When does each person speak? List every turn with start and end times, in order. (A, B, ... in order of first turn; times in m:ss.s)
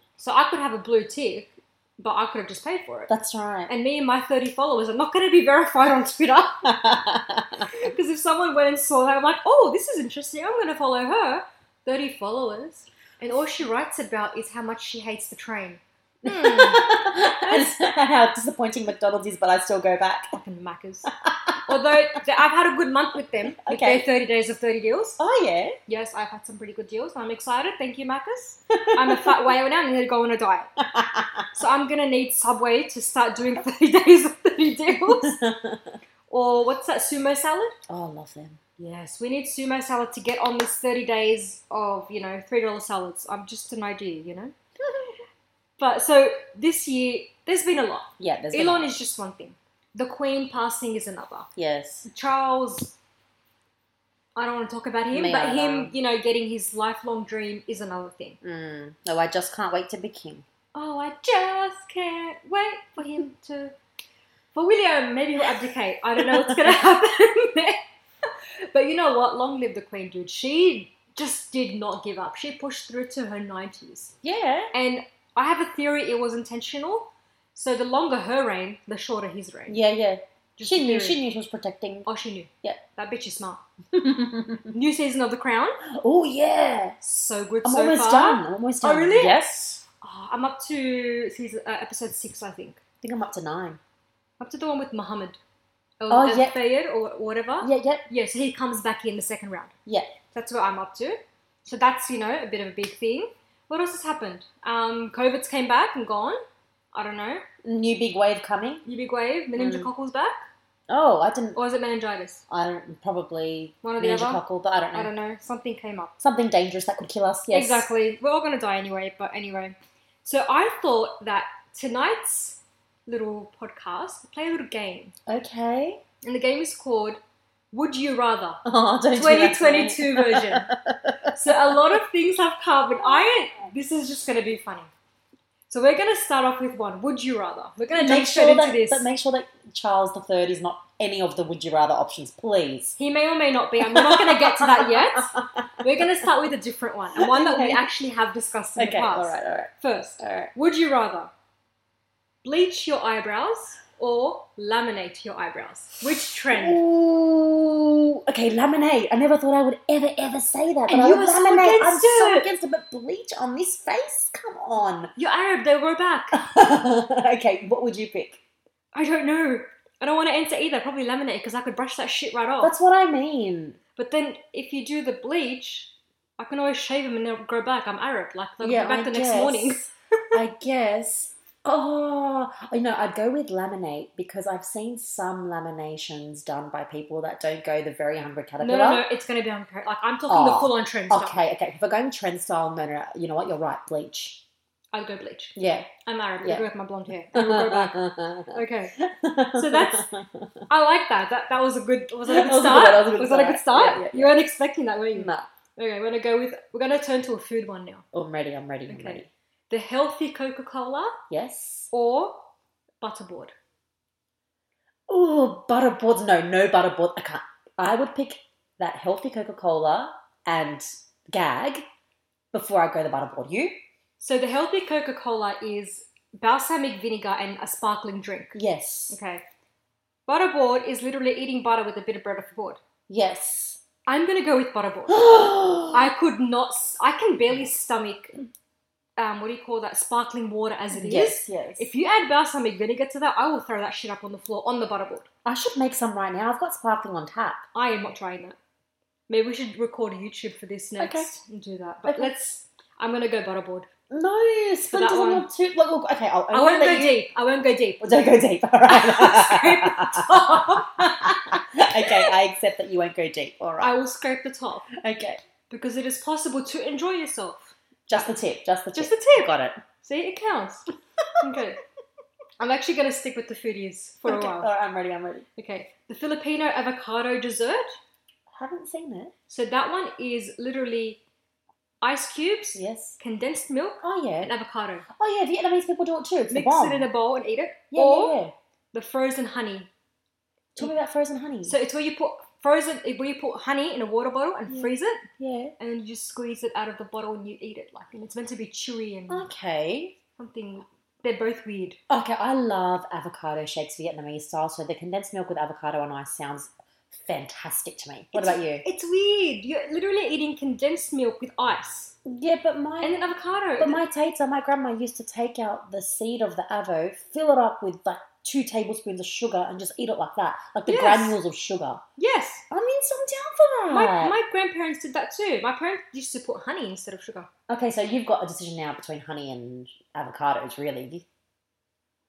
0:00.2-0:03.1 A
0:03.1-0:03.7 B
0:03.7-0:06.7 A
0:06.6-0:07.8 B
0:07.7-0:17.7 A
0:16.2-0:20.3 B
0:20.3-0:21.1 A
0:21.1-0:22.2 B
0:21.6-0:25.2 A
0:23.5-0:24.0 B
0:25.2-0:25.8 B
0:25.9-0:30.7 A
0:28.7-0:29.4 B
0:30.8-0:31.5 B
0:31.5-0:35.4 A
0:35.1-0:35.9 B
0:36.3-0:37.8 A
0:37.9-0:38.6 B
0:38.8-0:44.5 A
0:44.8-0:45.1 B
0:45.8-0:51.5 A
0:48.2-0:48.9 B
0:51.6-0:52.1 B
0:52.0-0:53.0 A
0:54.4-0:58.4 A
0:55.1-0:55.9 B
0:58.4-1:00.4 B
1:00.7-1:03.8 A
1:04.5-1:14.1 A
1:06.2-1:06.8 B
1:14.2-1:14.7 B
1:14.7-1:19.8 A
1:19.7-1:22.1 B
1:20.6-1:21.2 A
1:22.0-1:23.6 A
1:23.9-1:24.7 B
1:24.7-1:25.8 A
1:25.8-1:27.0 B
1:27.0-1:29.4 A
1:27.6-1:29.8 B
1:30.0-1:32.8 A
1:33.0-1:33.8 B
1:34.4-1:35.4 A
1:36.0-1:39.7 A
1:36.1-1:36.6 B
1:37.6-1:38.1 B
1:39.8-1:40.1 B
1:40.3-1:46.4 A
1:46.9-1:47.5 A
1:47.6-1:48.8 B
1:48.8-1:50.5 A
1:49.6-1:49.9 B
1:50.9-1:51.6 B
1:51.5-1:52.4 A
1:52.5-1:55.1 B
1:53.8-1:54.4 A
1:54.9-1:56.2 A
1:56.2-1:57.9 B
1:57.5-2:05.1 A
2:05.3-2:06.0 B
2:06.2-2:07.2 A
2:07.7-2:08.6 A
2:08.6-2:11.8 B
2:09.1-2:10.7 A
2:11.3-2:14.9 A
2:15.7-2:19.1 A
2:17.9-2:23.0 B
2:23.0-2:31.3 A
2:23.8-2:26.3 B
2:27.2-2:27.9 B
2:28.8-2:30.5 B
2:32.4-2:36.8 A
2:36.5-2:45.1 B
2:40.9-2:42.5 A
2:45.2-2:46.5 A
2:46.3-2:48.4 B
2:48.9-2:52.7 A
2:52.6-2:53.8 B
2:54.0-2:59.9 A
2:58.6-3:09.0 B
3:08.6-3:11.4 A
3:10.3-3:14.4 B
3:14.9-3:18.9 A
3:15.6-3:15.9 B
3:17.3-3:20.6 B
3:19.5-3:20.1 A
3:20.7-3:28.0 A
3:22.2-3:24.4 B
3:25.1-3:25.5 B
3:28.1-3:29.3 B
3:28.9-3:31.2 A
3:31.3-3:31.9 B
3:31.9-3:32.5 A
3:33.0-3:33.5 A
3:35.1-3:41.8 B
3:42.5-3:43.8 B
3:44.2-3:48.6 A
3:48.5-3:49.2 B
3:49.1-3:49.4 A
3:50.3-3:52.8 A
3:53.1-3:53.8 B
3:54.1-3:55.2 A
3:55.1-3:56.1 B
3:55.9-3:58.3 A
3:59.2-4:05.3 A
4:00.9-4:01.9 B
4:05.4-4:07.6 B
4:07.7-4:08.6 A
4:09.3-4:13.9 A
4:11.0-4:11.3 B
4:12.1-4:12.3 B
4:14.1-4:17.2 B
4:14.9-4:15.5 A
4:16.5-4:18.0 A
4:18.0-4:24.0 B
4:18.9-4:21.4 A
4:22.0-4:22.3 A
4:23.8-4:24.9 A
4:24.9-4:25.4 B
4:25.7-4:28.3 A
4:28.1-4:29.8 B
4:28.9-4:29.5 A
4:30.0-4:30.9 A
4:31.2-4:31.6 B
4:31.4-4:31.8 A
4:32.6-4:34.7 A
4:34.2-4:35.5 B
4:35.6-4:37.9 A
4:38.5-4:39.3 B
4:39.5-4:41.2 A
4:42.0-4:45.0 A
4:42.7-4:43.2 B
4:44.0-4:44.5 B
4:45.1-4:47.1 B
4:46.5-4:48.4 A
4:47.9-4:48.5 B
4:48.9-4:49.9 A
4:50.8-4:51.8 B
4:51.6-4:55.3 A
4:54.7-4:55.7 B
4:55.8-4:59.5 A
4:59.3-5:00.1 B
5:00.4-5:02.0 A
5:02.1-5:08.8 B
5:08.3-5:12.1 A
5:12.2-5:13.2 B
5:13.0-5:14.0 A
5:13.8-5:22.0 B
5:20.8-5:21.4 A
5:22.2-5:22.6 A
5:22.7-5:24.3 B
5:23.9-5:27.5 A
5:27.7-5:31.2 B